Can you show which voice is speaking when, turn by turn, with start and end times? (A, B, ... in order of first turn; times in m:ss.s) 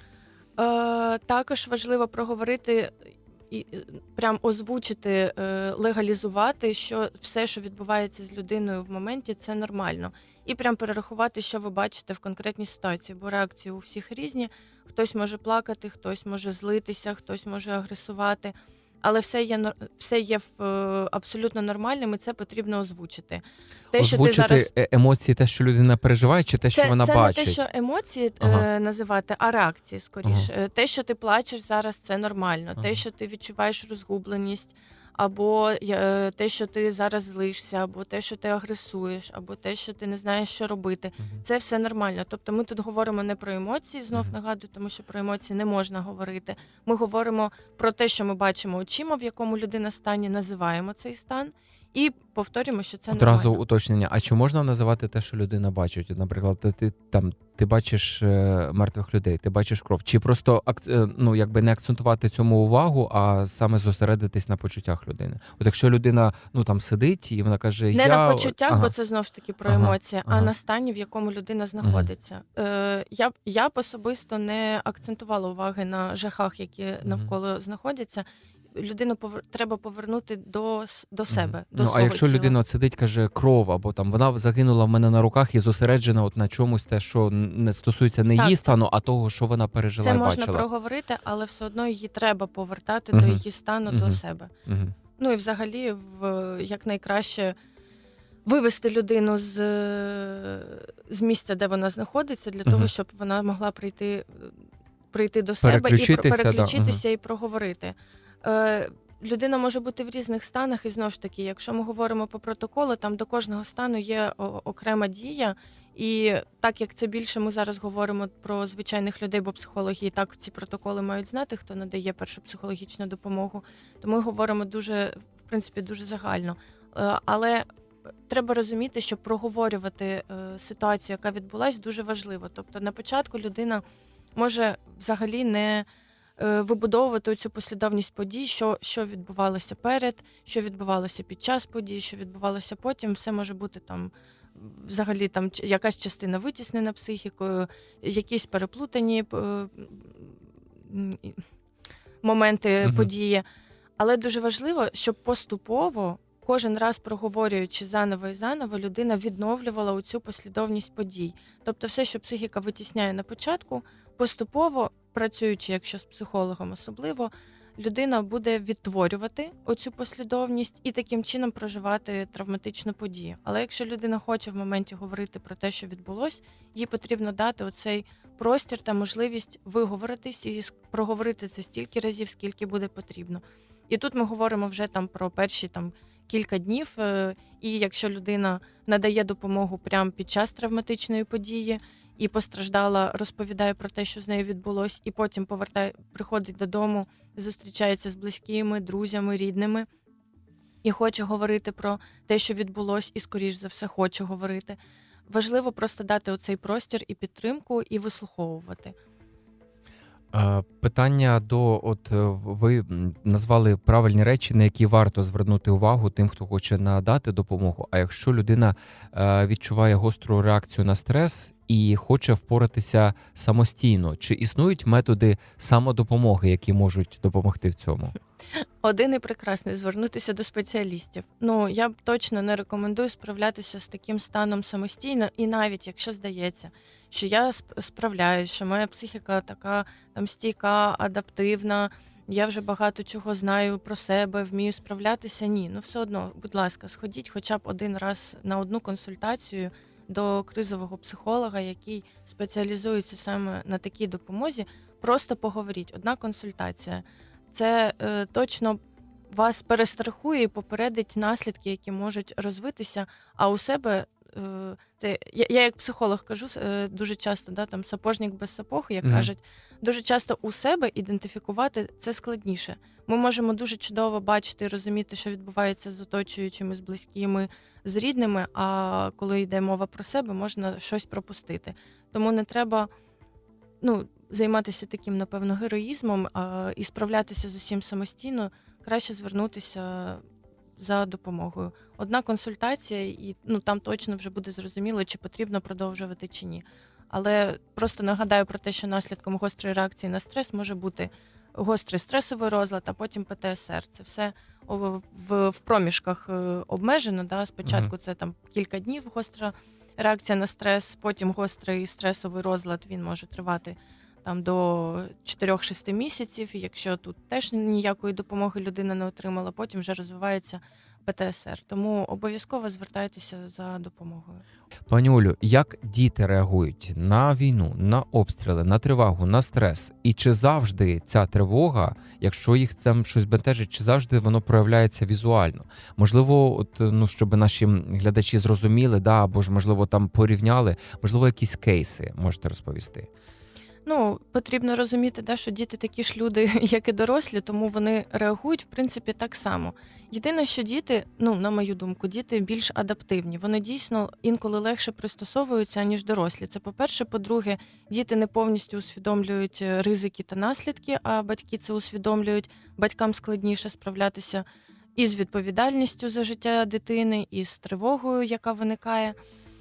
0:00.6-0:24.7 A
0:24.0-0:27.6 B
0:26.7-0:53.6 A
0:28.4-0:28.6 B
0:30.2-0:30.5 B
0:32.8-0:33.0 B
0:53.1-1:08.9 B
1:07.9-1:22.6 A
1:09.6-1:10.5 B
1:11.8-1:12.1 B
1:17.0-1:17.3 B
1:21.3-1:30.6 B
1:28.4-1:28.7 A
1:30.0-1:34.5 A
1:33.1-1:34.9 B
1:35.2-1:37.6 A
1:38.4-1:44.5 A
1:42.6-1:42.9 B
1:45.1-2:07.6 A
1:45.6-1:47.0 B
2:08.3-2:13.8 A
2:14.4-2:15.8 A
2:16.4-2:31.4 A
2:32.2-2:33.4 A
2:32.8-2:33.1 B
2:34.0-3:19.9 A
3:20.8-3:28.9 A
3:30.3-3:48.1 B
3:48.8-4:18.8 A
4:19.3-4:42.9 A
4:29.0-4:29.3 B
4:43.8-4:50.2 A
4:50.8-5:24.4 A
5:07.6-5:07.9 B
5:24.9-5:43.1 B
5:43.8-6:04.4 A
6:04.9-6:09.2 A